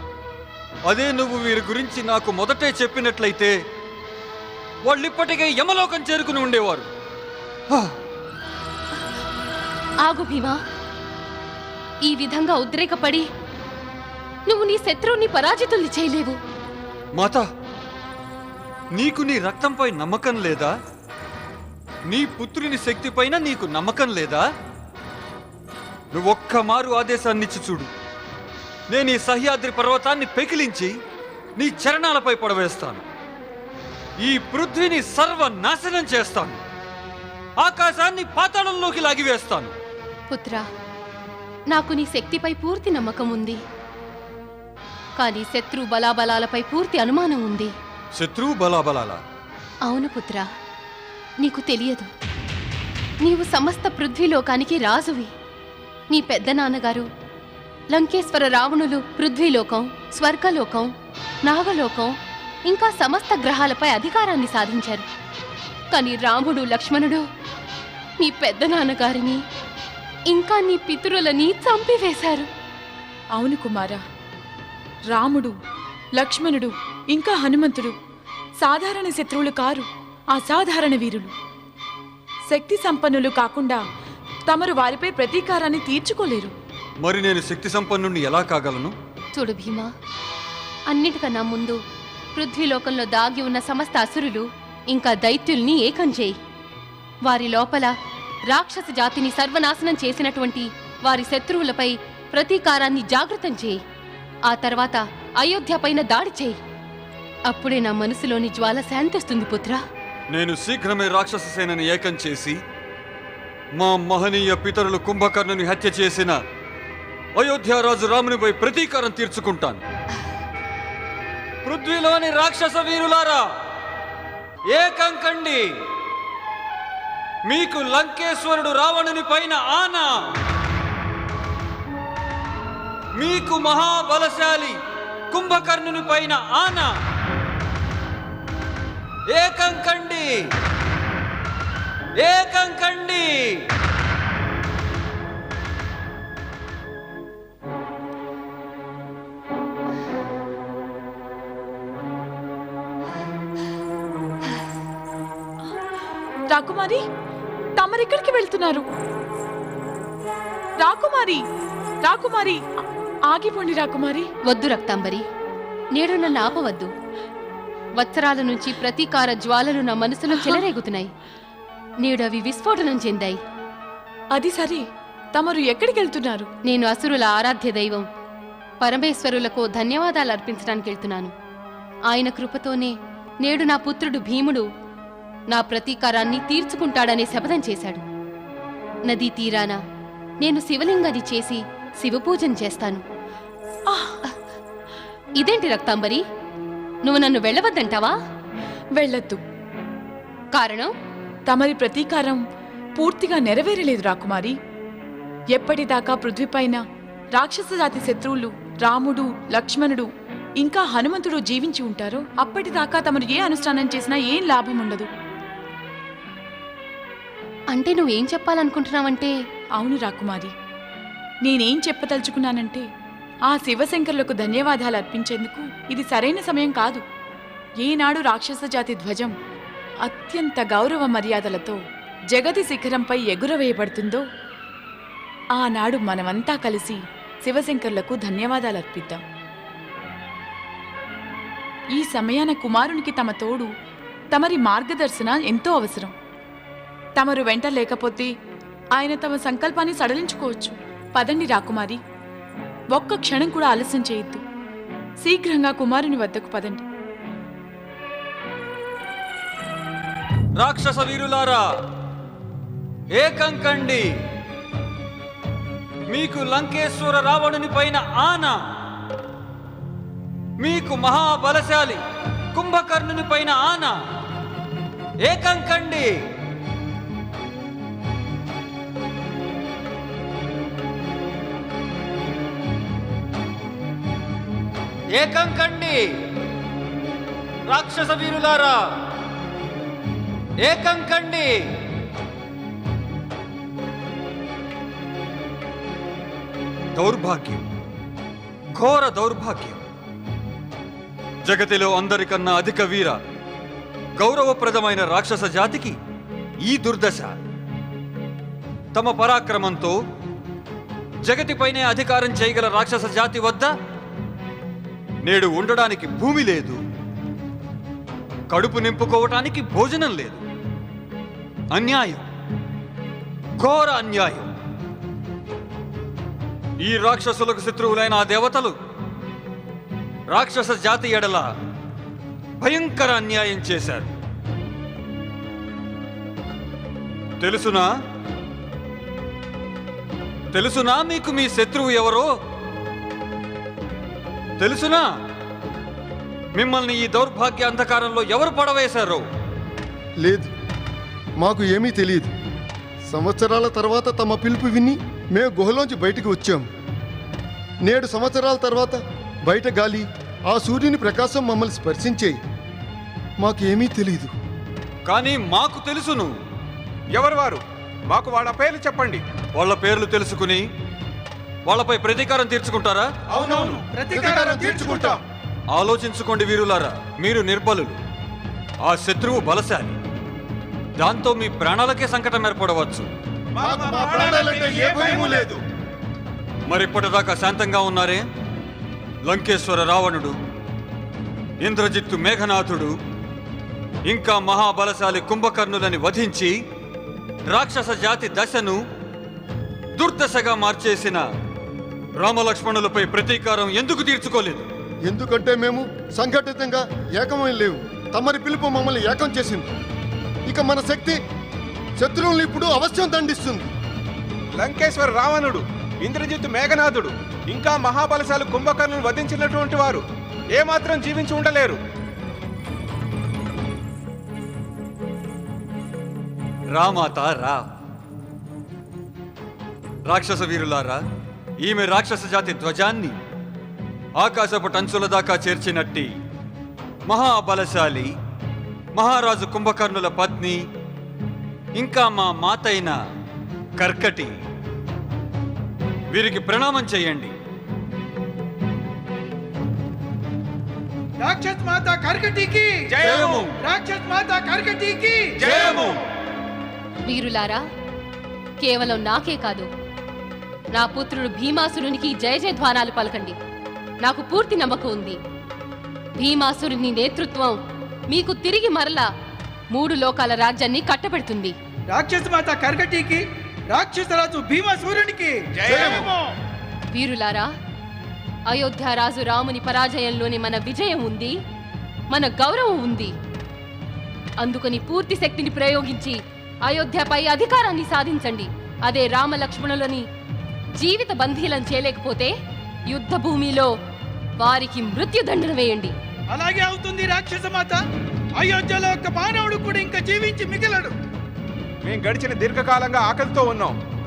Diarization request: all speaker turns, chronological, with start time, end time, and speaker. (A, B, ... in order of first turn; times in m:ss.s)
0:00.9-0:03.5 A
0:04.8-0:06.9 A
0:10.0-0:10.6 B
0:12.0-0:13.2 B
0:14.5-0:16.4 B
0:17.1-0:17.4 A
0:18.9-0:20.7 A
0:22.1-0:24.4 A
0:26.1-0:27.9 A
0:28.9-0:30.9 A
0:31.6-0:33.0 A
0:34.2-0:36.6 A
0:37.6-0:39.7 A
0:40.3-0:40.6 B
0:41.7-0:43.6 B
0:45.2-0:47.7 B
0:48.1-0:49.2 A
0:49.8-0:50.5 B
0:51.4-0:52.1 B
0:53.2-0:55.3 B
0:56.1-0:57.1 B
0:57.9-1:00.9 B
1:01.4-1:05.0 B
1:05.9-1:07.2 B
1:08.2-1:09.4 B
1:10.3-1:12.5 B
1:13.3-1:14.0 C
1:15.1-1:15.5 C
1:16.2-1:17.9 C
1:18.6-1:21.3 C
1:22.5-1:23.8 C
1:24.5-1:26.5 C
1:27.0-1:28.9 A
1:29.3-1:29.9 B
1:30.9-1:31.8 B
1:32.4-1:36.3 B
1:37.2-1:37.9 B
1:38.5-1:43.8 B
1:44.5-1:46.6 B
1:47.5-1:49.8 B
1:50.3-1:52.6 A
1:53.8-1:56.4 A
1:57.3-1:59.8 A
2:01.6-2:03.5 A
2:04.7-2:05.7 A
2:07.4-2:10.3 A
2:13.2-2:14.8 A
2:15.3-2:17.0 A
2:19.3-2:20.4 A
2:22.2-2:23.6 A
2:36.5-2:37.0 C
2:37.8-2:38.8 C
2:40.8-2:41.4 C
2:42.0-2:42.6 C
2:43.3-2:44.3 C
2:44.5-2:45.2 B
2:45.9-2:46.9 B
2:48.0-2:51.1 B
2:50.4-2:50.6 C
2:52.0-2:53.4 B
2:54.3-2:54.8 C
2:55.3-2:56.5 C
2:56.7-2:58.0 B
2:58.8-3:01.3 B
3:02.1-3:04.6 B
3:05.5-3:08.0 B
3:09.1-3:09.8 B
3:10.4-3:13.0 B
3:13.9-3:14.2 C
3:15.4-3:16.2 B
3:17.0-3:18.1 B
3:19.0-3:19.4 C
3:20.5-3:20.9 B
3:21.5-3:22.4 C
3:23.0-3:24.5 C
3:25.5-3:26.8 C
3:27.3-3:30.1 C
3:30.6-3:35.1 C
3:37.7-3:39.3 B
3:39.8-3:40.5 C
3:41.4-3:42.8 C
3:43.5-3:47.0 C
3:47.8-3:49.3 C
3:50.0-3:51.8 C
3:52.3-3:54.2 C
3:55.6-3:59.2 C
4:01.9-4:03.7 C
4:04.3-4:06.1 C
4:07.2-4:08.3 C
4:08.9-4:12.0 C
4:12.9-4:14.4 C
4:15.2-4:16.8 C
4:20.6-4:21.6 A
4:23.1-4:24.1 A
4:26.1-4:28.7 A
4:30.6-4:32.0 A
4:32.5-4:34.0 A
4:35.2-4:36.1 A
4:45.1-4:46.1 A
4:47.7-4:48.9 A
4:50.6-4:51.6 A
4:56.9-4:57.6 A
4:58.7-4:59.8 A
5:01.4-5:03.2 A
5:04.2-5:05.9 A
5:06.6-5:07.4 A
5:08.9-5:09.9 A
5:11.2-5:13.7 A
5:15.2-5:16.8 A
5:18.5-5:20.4 A
5:21.7-5:22.2 A
5:23.6-5:24.5 A
5:26.8-5:28.7 A
5:30.3-5:31.5 A
5:32.6-5:34.1 A
5:37.4-5:37.9 A
5:40.5-5:42.3 A
5:44.6-5:45.1 A
5:46.5-5:49.2 A
5:50.2-5:50.5 D
5:51.4-5:52.3 D
5:53.1-5:56.6 D
5:57.8-6:02.4 D
6:03.4-6:04.3 D
6:05.0-6:06.3 A
6:07.1-6:09.2 E
6:09.5-6:10.6 A
6:11.6-6:13.0 A
6:13.3-6:13.8 E
6:13.5-6:15.2 F
6:14.1-6:15.1 D
6:14.3-6:15.2 E
6:15.7-6:18.0 A
6:18.8-6:20.0 A
6:21.0-6:23.1 A
6:23.6-6:25.6 E
6:23.6-6:25.5 D
6:26.7-6:28.2 A
6:29.2-6:30.3 A
6:31.6-6:32.9 A
6:34.0-6:36.5 A
6:37.5-6:38.8 A
6:40.0-6:41.2 A
6:42.2-6:44.6 A
6:45.1-6:49.7 D
6:50.4-6:51.2 D
6:52.0-6:53.7 D
6:54.6-7:00.0 E
7:00.5-7:01.8 E
7:06.7-7:07.6 A
7:10.0-7:11.0 A
7:11.6-7:13.1 A
7:14.2-7:16.1 A
7:17.1-7:18.1 A
7:18.9-7:20.6 A
7:21.7-7:23.0 A
7:23.8-7:24.3 A
7:26.1-7:27.3 A
7:31.2-7:36.0 F
7:33.0-7:33.5 E
7:35.5-7:35.9 E
7:37.1-7:37.6 B
7:38.6-7:39.7 B
7:40.7-7:43.3 B
7:44.0-7:45.2 B
7:46.2-7:47.6 B
7:48.1-7:49.1 B
7:49.7-7:51.5 B
7:51.9-7:56.3 F
7:55.6-7:55.9 E
7:56.9-7:57.5 B
7:58.5-8:01.3 B
8:02.1-8:03.1 B
8:04.4-8:10.0 B
8:10.8-8:12.3 B
8:12.9-8:13.7 B
8:14.4-8:15.9 B
8:16.3-8:17.8 F
8:18.3-8:21.0 F
8:21.8-8:23.8 E